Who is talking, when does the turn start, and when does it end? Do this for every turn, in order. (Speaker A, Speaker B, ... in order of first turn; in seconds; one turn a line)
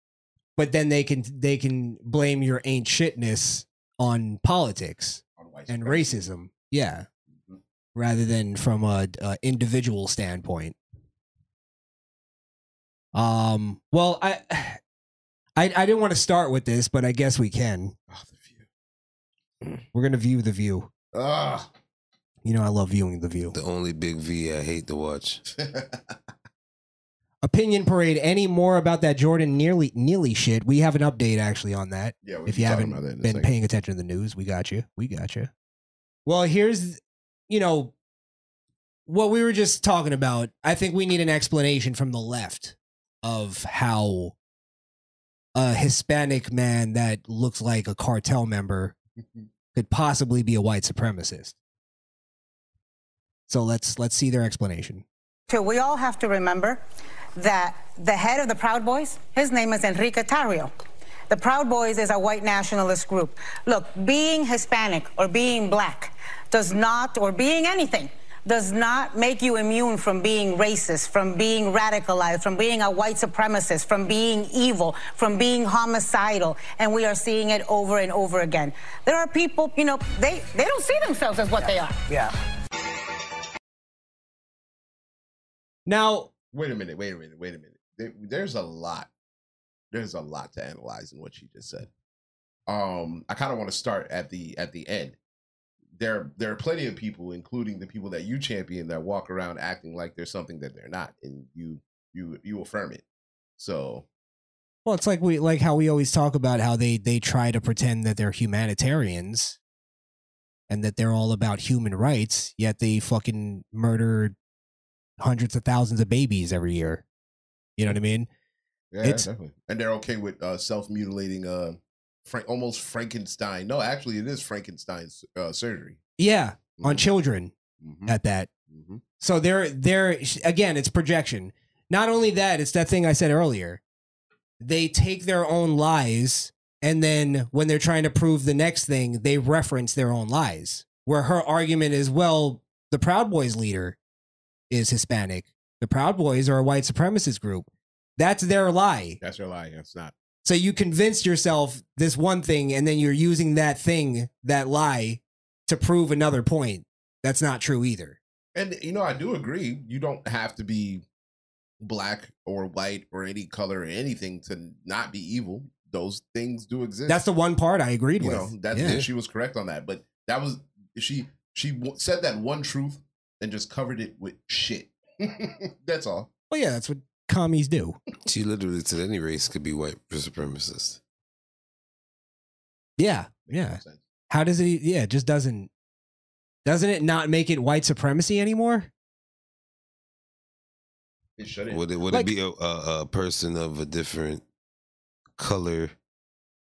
Speaker A: 0.6-7.1
Speaker B: 5.4-6.3
Speaker A: 7.9-10.8
Speaker A: 13.1-14.8
Speaker A: 15.6-17.9
Speaker B: 18.1-18.6
Speaker A: 19.9-20.9
Speaker B: 21.1-21.7
Speaker A: 22.4-23.5
Speaker C: 23.5-25.4
Speaker B: 25.6-25.8
Speaker A: 27.4-35.5
Speaker B: 32.2-33.5
Speaker A: 36.2-37.9
Speaker A: 39.1-44.3
Speaker A: 45.5-49.0
Speaker A: 49.7-51.5
Speaker A: 53.5-55.0
Speaker D: 55.5-56.8
Speaker D: 57.4-60.7
Speaker D: 61.3-82.2
Speaker A: 85.8-86.3
Speaker B: 86.5-89.1
Speaker B: 89.9-91.9
Speaker B: 92.7-95.2
Speaker B: 95.9-103.0
Speaker B: 103.6-104.0
Speaker A: 104.8-109.6
Speaker A: 110.7-114.3
Speaker A: 115.2-117.0
Speaker A: 117.8-118.3
Speaker B: 118.9-126.0
Speaker A: 119.0-119.3
Speaker A: 126.2-127.5
Speaker B: 126.8-127.0
Speaker B: 127.8-128.1
Speaker A: 128.1-128.5
Speaker B: 128.7-129.0
Speaker A: 129.2-133.8
Speaker A: 134.6-144.0
Speaker A: 144.7-149.2
Speaker B: 149.2-150.1
Speaker A: 150.4-158.2
Speaker B: 158.5-161.0
Speaker B: 161.8-167.2
Speaker A: 167.1-169.0
Speaker B: 168.2-176.3
Speaker C: 168.8-169.1
Speaker A: 176.5-178.0
Speaker C: 178.3-181.0
Speaker A: 183.0-185.7
Speaker B: 183.5-184.0
Speaker A: 186.6-188.9
Speaker B: 191.4-191.8
Speaker C: 191.7-194.4
Speaker C: 195.4-195.9